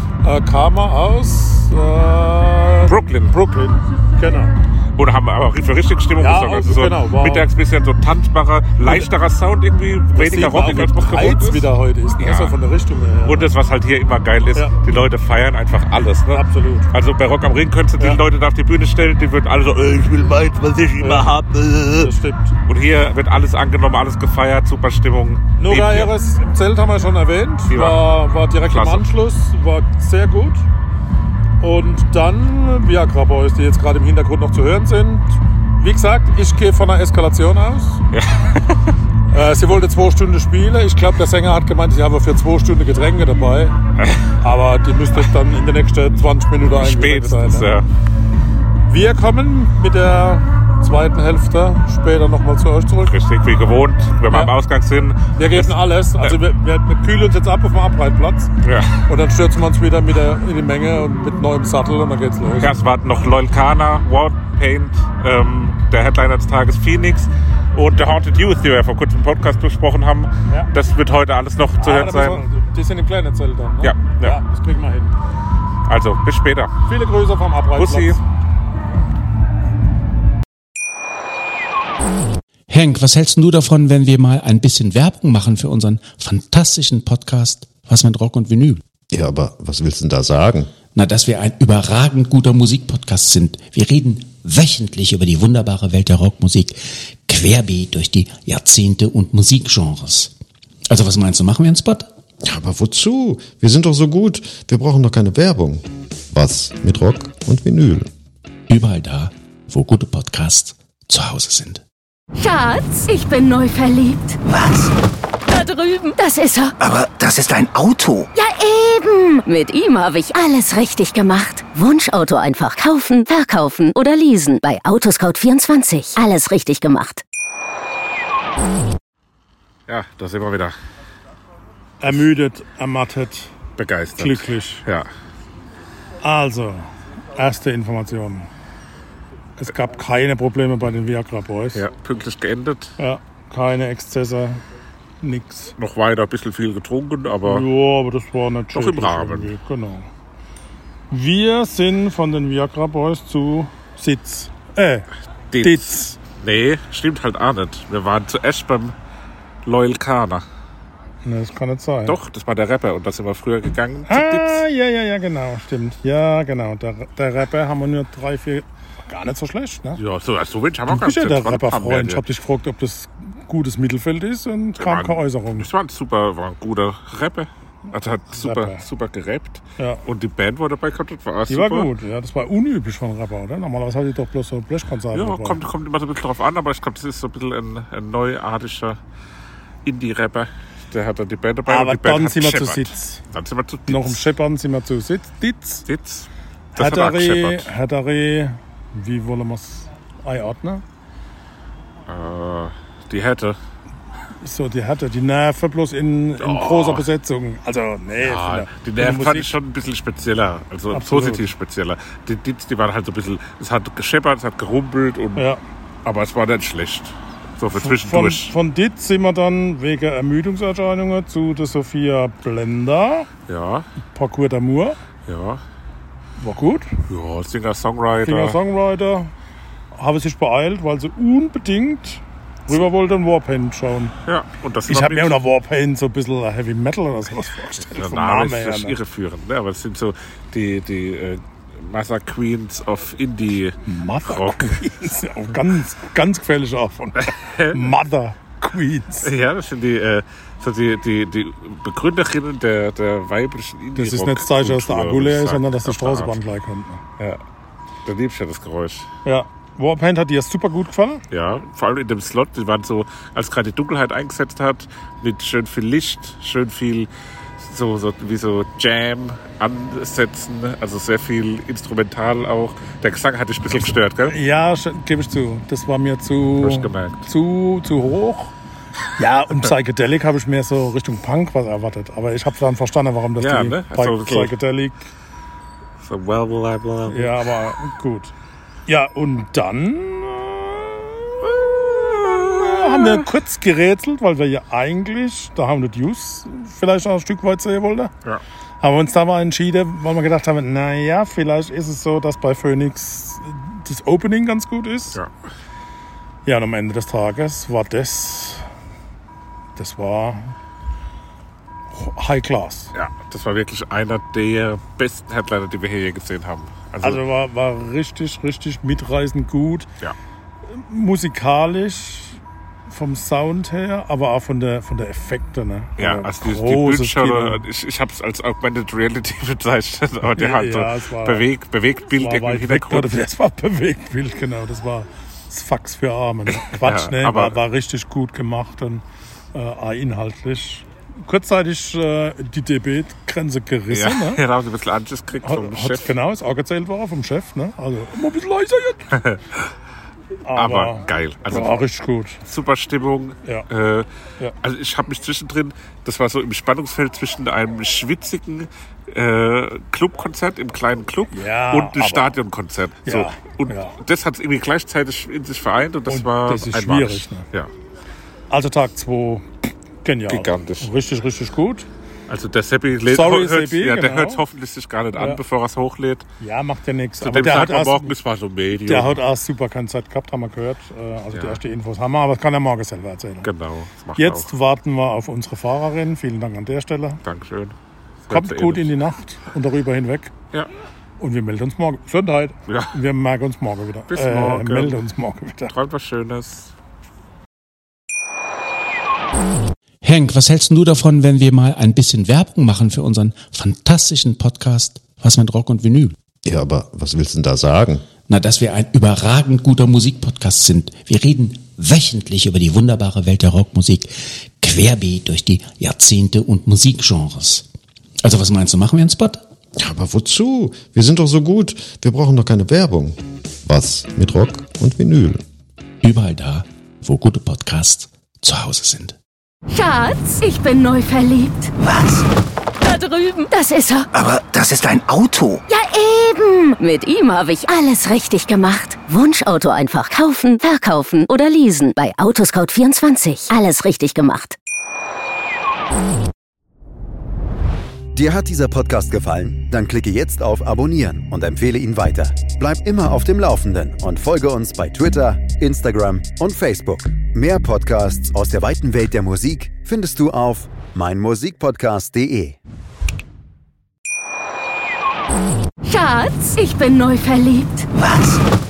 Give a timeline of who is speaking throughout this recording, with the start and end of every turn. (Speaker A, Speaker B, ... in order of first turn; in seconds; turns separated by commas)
Speaker A: 0.2-2.9, Speaker B: 2.9-3.6, Speaker A: 3.6-4.5, Speaker B: 5.0-12.6, Speaker A: 6.2-7.4, Speaker A: 10.2-13.4, Speaker B: 13.2-22.1, Speaker A: 16.4-16.9, Speaker A: 22.1-22.5, Speaker B: 22.7-26.1, Speaker A: 25.6-30.6, Speaker B: 27.7-29.2, Speaker A: 31.6-38.0, Speaker B: 38.1-38.8, Speaker A: 39.3-43.8, Speaker A: 44.4-47.6, Speaker B: 46.7-47.9, Speaker A: 48.9-53.1, Speaker B: 53.0-56.4, Speaker A: 55.4-58.5, Speaker B: 58.6-59.0, Speaker A: 59.1-62.7, Speaker B: 62.6-72.4, Speaker A: 71.8-75.1, Speaker B: 73.8-74.4, Speaker B: 75.9-76.7, Speaker A: 76.9-78.2, Speaker B: 77.7-78.2, Speaker C: 82.7-88.8, Speaker D: 89.1-90.7, Speaker C: 90.9-100.3, Speaker C: 100.9-102.1, Speaker D: 102.4-108.1, Speaker C: 108.7-111.8, Speaker E: 112.4-114.4, Speaker E: 115.5-116.8, Speaker F: 116.9-118.2, Speaker E: 118.3-127.2, Speaker B: 129.9-130.8, Speaker B: 132.1-132.3, Speaker A: 132.1-133.5, Speaker B: 133.8-135.1, Speaker A: 136.2-136.8, Speaker A: 137.4-138.5, Speaker A: 139.7-141.7, Speaker B: 141.7-142.9, Speaker A: 143.0-144.6, Speaker A: 145.2-145.7, Speaker B: 145.8-147.7, Speaker A: 147.5-150.1, Speaker B: 148.7-149.5, Speaker A: 151.1-155.0, Speaker B: 155.5-158.9, Speaker A: 155.7-156.1, Speaker B: 159.7-160.4, Speaker A: 161.2-162.1, Speaker B: 162.1-164.6, Speaker A: 164.1-169.9, Speaker B: 170.0-172.2, Speaker A: 170.9-175.6, Speaker B: 174.8-181.9, Speaker A: 181.5-185.5, Speaker B: 185.1-189.0, Speaker B: 189.8-194.2, Speaker A: 191.7-193.2, Speaker A: 193.9-195.7, Speaker B: 195.9-197.7, Speaker A: 196.8-200.8, Speaker B: 202.1-203.6, Speaker A: 204.5-209.4, Speaker B: 206.4-207.1, Speaker B: 208.2-215.5, Speaker A: 210.9-211.4, Speaker B: 216.1-218.5, Speaker A: 217.8-223.3, Speaker B: 223.5-223.9, Speaker A: 224.2-225.0, Speaker B: 225.3-225.6, Speaker A: 226.4-226.9, Speaker B: 227.1-228.6, Speaker A: 228.3-229.3, Speaker A: 229.9-232.2, Speaker A: 232.8-234.1, Speaker B: 234.2-235.4, Speaker A: 234.9-238.9, Speaker B: 237.8-244.8, Speaker A: 243.9-247.1, Speaker B: 247.2-248.0, Speaker A: 247.8-249.2, Speaker B: 249.2-256.4, Speaker A: 254.0-257.0, Speaker B: 258.1-259.1, Speaker A: 259.3-261.2, Speaker B: 261.3-274.4, Speaker A: 274.4-278.5, Speaker B: 276.6-277.2, Speaker A: 279.2-285.0, Speaker B: 283.4-284.6, Speaker B: 286.0-287.6, Speaker A: 287.1-288.3, Speaker A: 288.9-291.2, Speaker B: 291.4-293.3, Speaker A: 292.9-298.1, Speaker A: 298.8-305.1, Speaker A: 306.5-308.6, Speaker A: 309.8-310.5, Speaker A: 311.9-312.9, Speaker B: 312.9-317.2, Speaker A: 317.1-319.9, Speaker A: 320.8-322.4, Speaker A: 322.9-327.6, Speaker B: 326.0-333.1, Speaker A: 330.4-331.3, Speaker A: 332.2-339.0, Speaker B: 336.5-337.6, Speaker A: 339.5-344.4, Speaker B: 343.9-346.1, Speaker A: 345.5-349.0, Speaker B: 350.5-351.8, Speaker A: 351.5-352.3, Speaker B: 352.4-354.1, Speaker B: 354.6-367.7, Speaker A: 361.4-362.2, Speaker A: 363.1-363.9, Speaker A: 366.1-367.4, Speaker A: 368.5-369.4, Speaker B: 370.3-370.9, Speaker A: 370.9-371.9, Speaker B: 372.3-376.2, Speaker A: 373.2-374.3, Speaker A: 376.4-377.9, Speaker B: 377.2-379.2, Speaker A: 378.9-383.3, Speaker B: 381.3-381.6, Speaker B: 383.4-384.5, Speaker A: 384.3-387.1, Speaker B: 387.2-387.8, Speaker B: 388.3-388.9, Speaker A: 388.4-390.3, Speaker A: 391.2-395.7, Speaker B: 392.7-392.9, Speaker B: 394.1-395.0, Speaker B: 395.7-396.7, Speaker C: 400.0-406.1, Speaker D: 406.4-408.1, Speaker C: 408.3-417.7, Speaker C: 418.2-419.4, Speaker D: 419.8-425.4, Speaker C: 426.0-429.2, Speaker E: 429.7-431.7, Speaker E: 432.8-434.1, Speaker F: 434.3-435.6, Speaker E: 435.7-444.5, Speaker G: 448.1-462.6, Speaker E: 465.9-467.9, Speaker F: 468.1-468.4